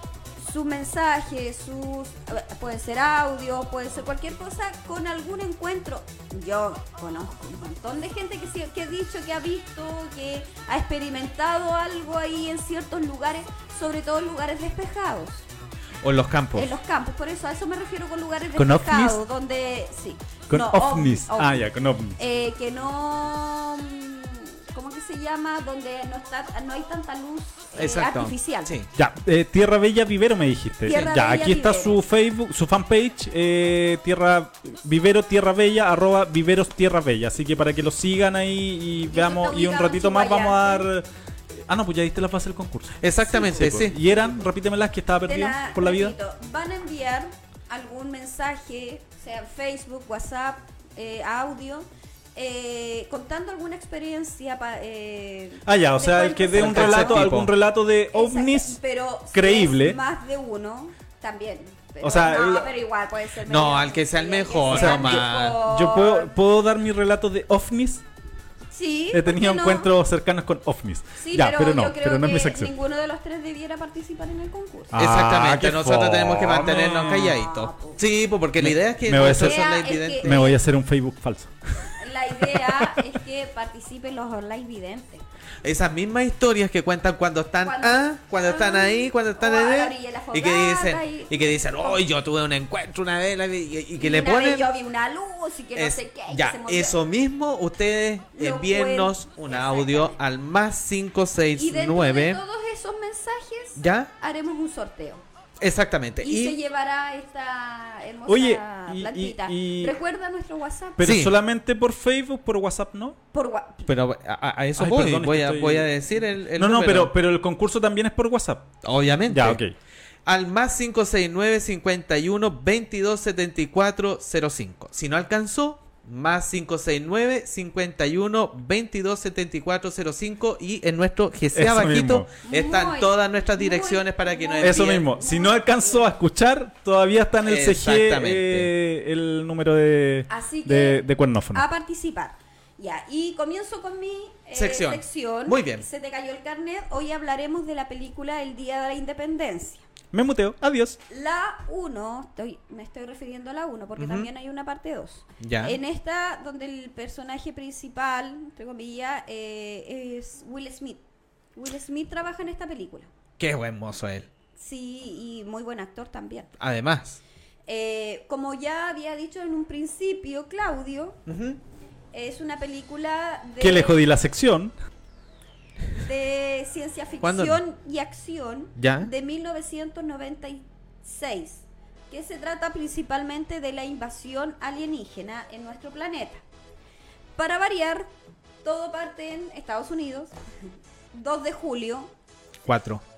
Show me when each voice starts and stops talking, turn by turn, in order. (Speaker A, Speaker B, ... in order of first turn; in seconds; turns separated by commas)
Speaker A: 0.4-15.5, Speaker B: 16.0-16.8, Speaker A: 16.6-21.7, Speaker C: 18.6-19.2, Speaker C: 20.5-22.2, Speaker A: 22.2-28.7, Speaker B: 27.8-28.9, Speaker C: 28.9-41.1, Speaker A: 30.9-32.0, Speaker A: 39.1-40.9, Speaker C: 41.7-46.1, Speaker B: 43.0-44.0, Speaker A: 45.3-57.3, Speaker C: 55.7-58.8, Speaker B: 56.5-57.5, Speaker A: 58.1-66.3, Speaker C: 59.3-60.0, Speaker C: 62.0-62.7, Speaker B: 63.5-65.6, Speaker C: 64.7-68.0, Speaker A: 68.7-69.9, Speaker C: 69.1-72.7, Speaker A: 71.2-75.0, Speaker C: 74.9-77.3, Speaker B: 75.0-80.5, Speaker A: 77.1-78.0, Speaker C: 78.6-83.0, Speaker A: 79.2-80.6, Speaker A: 82.0-85.2, Speaker B: 85.6-94.7, Speaker A: 87.6-92.0, Speaker A: 94.0-97.0, Speaker B: 95.8-102.4, Speaker A: 98.3-100.2, Speaker A: 101.5-105.2, Speaker B: 103.8-104.1, Speaker B: 105.6-106.6, Speaker A: 106.2-111.1, Speaker C: 108.3-110.0, Speaker C: 111.0-113.2, Speaker B: 111.0-111.4, Speaker A: 113.3-113.9, Speaker B: 113.9-117.1, Speaker C: 114.8-118.7, Speaker B: 118.8-119.6, Speaker C: 119.3-119.7, Speaker B: 120.2-135.1, Speaker C: 131.5-132.3, Speaker A: 132.4-136.1, Speaker C: 134.6-141.6, Speaker B: 137.4-138.7, Speaker A: 140.3-149.8, Speaker B: 144.6-145.9, Speaker C: 150.1-151.0, Speaker A: 151.1-161.0, Speaker B: 154.0-154.3, Speaker B: 155.4-155.8, Speaker A: 161.6-163.1, Speaker B: 163.4-164.3, Speaker A: 164.6-166.5, Speaker B: 166.6-167.2, Speaker A: 167.7-171.2, Speaker B: 171.3-171.6, Speaker A: 172.1-174.0, Speaker C: 173.6-174.8, Speaker A: 175.9-186.4, Speaker B: 177.2-177.6, Speaker B: 178.8-179.1, Speaker A: 187.4-188.1, Speaker A: 188.6-190.3, Speaker A: 191.1-192.1, Speaker B: 192.7-193.0